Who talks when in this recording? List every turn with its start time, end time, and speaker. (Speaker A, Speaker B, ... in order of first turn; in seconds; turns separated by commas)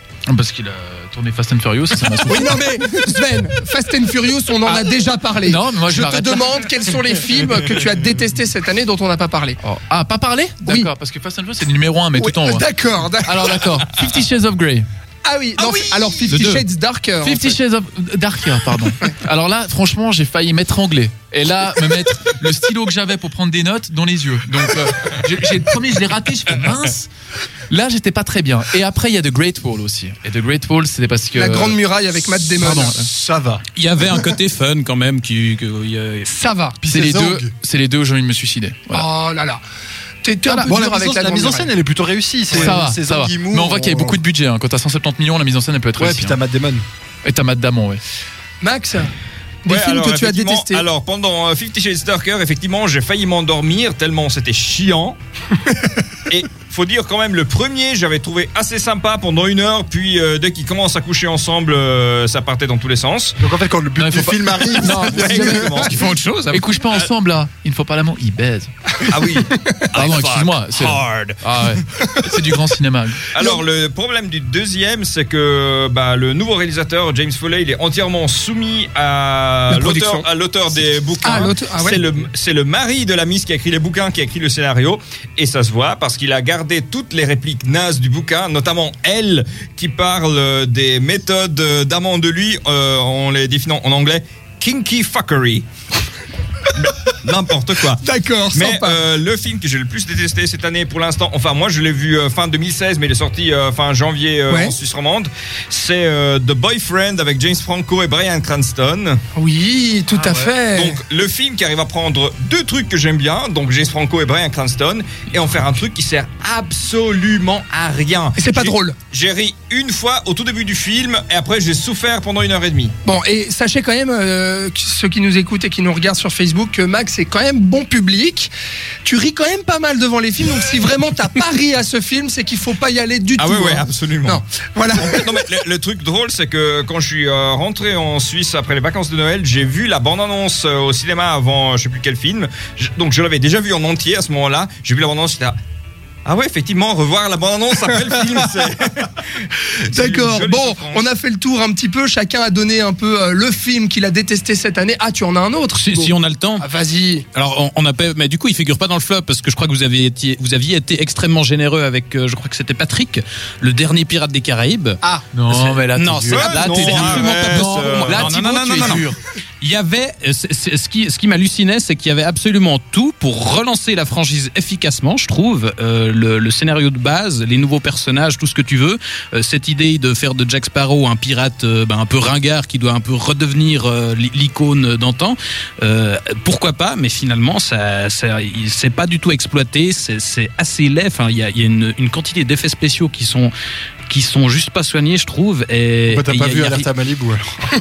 Speaker A: 0.3-2.7, Speaker B: 2.2-9.6, Speaker A: 5.4-6.4, Speaker A: 9.6-12.6, Speaker B: 10.7-10.9, Speaker B: 12.2-13.9, Speaker A: 13.3-14.9, Speaker B: 15.2-17.5, Speaker A: 15.6-16.3, Speaker C: 16.3-16.6, Speaker A: 17.2-27.1, Speaker A: 27.7-31.8, Speaker B: 31.4-33.0, Speaker A: 32.6-33.0, Speaker D: 33.0-33.6, Speaker C: 33.8-36.3, Speaker B: 36.3-36.8, Speaker D: 36.8-37.5, Speaker A: 36.9-39.1, Speaker B: 38.9-39.6, Speaker B: 40.2-41.7, Speaker D: 40.7-44.2, Speaker A: 42.5-46.4, Speaker D: 46.0-46.8, Speaker A: 47.2-48.0, Speaker B: 48.6-49.1, Speaker B: 49.6-50.9, Speaker E: 49.7-55.2, Speaker E: 56.3-63.4, Speaker D: 63.4-65.8, Speaker A: 64.0-65.8, Speaker E: 65.1-66.0, Speaker C: 65.7-66.7, Speaker A: 66.5-68.7, Speaker E: 69.0-71.3, Speaker A: 69.9-73.3, Speaker C: 70.8-71.3, Speaker E: 73.3-95.7, Speaker B: 79.7-80.3, Speaker B: 81.2-82.0, Speaker E: 96.8-98.0, Speaker B: 98.0-99.0, Speaker E: 98.5-109.2, Speaker B: 104.5-104.8, Speaker B: 109.3-111.0, Speaker E: 110.4-122.9, Speaker B: 118.4-119.0, Speaker B: 123.0-128.5, Speaker B: 129.1-135.2, Speaker E: 133.4-134.4, Speaker E: 135.0-145.6, Speaker E: 146.2-151.0, Speaker B: 149.9-157.2, Speaker C: 155.8-156.7, Speaker C: 157.3-193.5, Speaker A: 165.3-169.2, Speaker E: 166.3-169.1, Speaker C: 194.1-196.9, Speaker D: 196.1-197.5